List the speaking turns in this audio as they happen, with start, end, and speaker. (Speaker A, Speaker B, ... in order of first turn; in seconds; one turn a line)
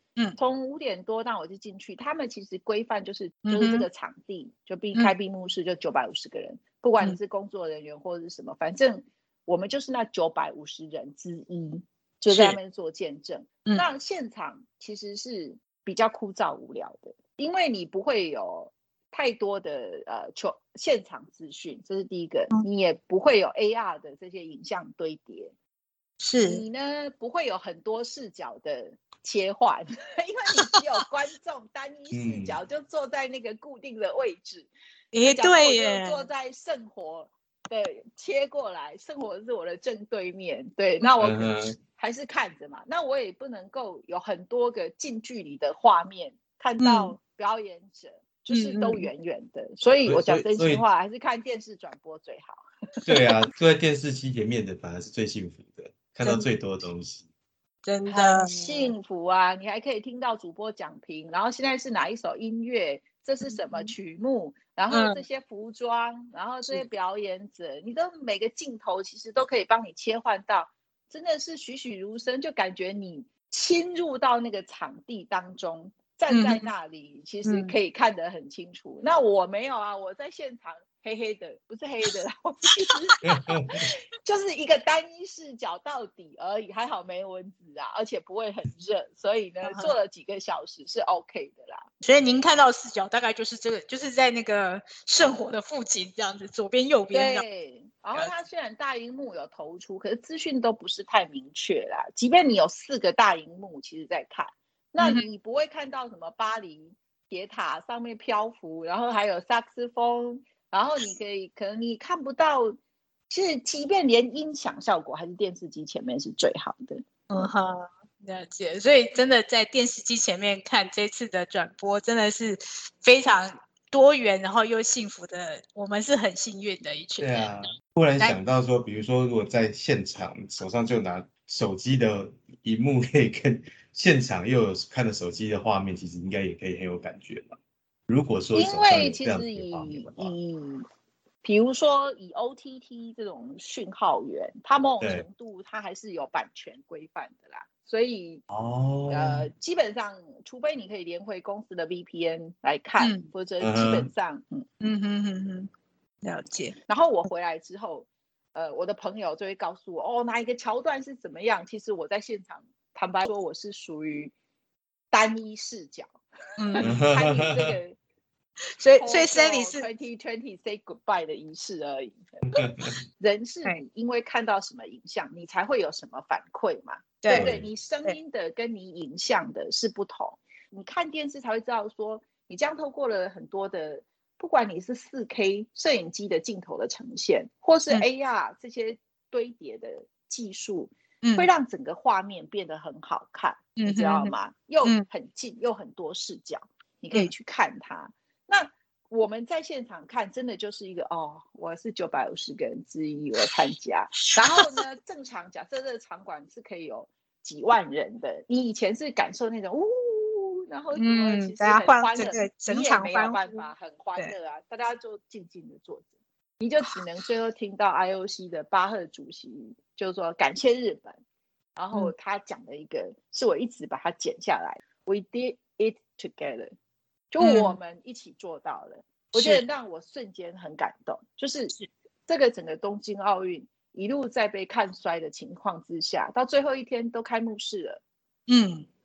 Speaker A: 0.4-25.5
Speaker B: 3.5-3.9
Speaker B: 12.3-12.6
Speaker B: 26.2-26.6
Speaker A: 26.4-34.7
Speaker C: 32.1-32.5
Speaker B: 35.1-36.2
Speaker A: 35.2-52.6
Speaker C: 41.2-41.8
Speaker B: 46.8-47.1
Speaker B: 48.5-49.1
Speaker C: 50.0-50.8
Speaker C: 53.0-57.2
Speaker B: 57.8-58.9
Speaker A: 58.1-83.2
Speaker B: 63.5-63.9
Speaker B: 64.9-65.2
Speaker B: 76.3-76.7
Speaker B: 77.5-77.7
Speaker C: 83.2-83.9
Speaker A: 83.7-91.9
Speaker B: 89.6-89.9
Speaker B: 92.0-97.4
Speaker A: 97.1-112.8
Speaker B: 105.0-105.2
Speaker A: 113.3-117.0
Speaker B: 117.3-127.4
Speaker C: 127.2-137.6
Speaker C: 138.1-140.3
Speaker A: 138.5-140.8
Speaker A: 141.4-148.4
Speaker C: 148.5-149.5
Speaker A: 149.1-154.7
Speaker B: 153.0-153.2
Speaker C: 153.6-154.1
Speaker B: 154.8-155.7
Speaker B: 156.2-156.8
Speaker A: 156.9-164.3
Speaker A: 165.1-166.1
Speaker B: 166.6-166.9
Speaker A: 166.7-168.0
Speaker C: 166.8-167.8
Speaker B: 168.8-169.8
Speaker A: 169.0-172.2
Speaker C: 172.5-172.9
Speaker A: 173.2-216.1
Speaker B: 177.2-177.5
Speaker C: 177.3-177.7
Speaker B: 191.2-191.5
Speaker B: 193.8-195.1
Speaker B: 204.3-204.8
Speaker B: 211.0-214.3
Speaker A: 216.6-221.2
Speaker A: 221.8-226.7
Speaker A: 227.3-231.7
Speaker B: 227.4-227.8
Speaker B: 229.3-229.6
Speaker A: 232.3-238.0
Speaker B: 238.5-238.9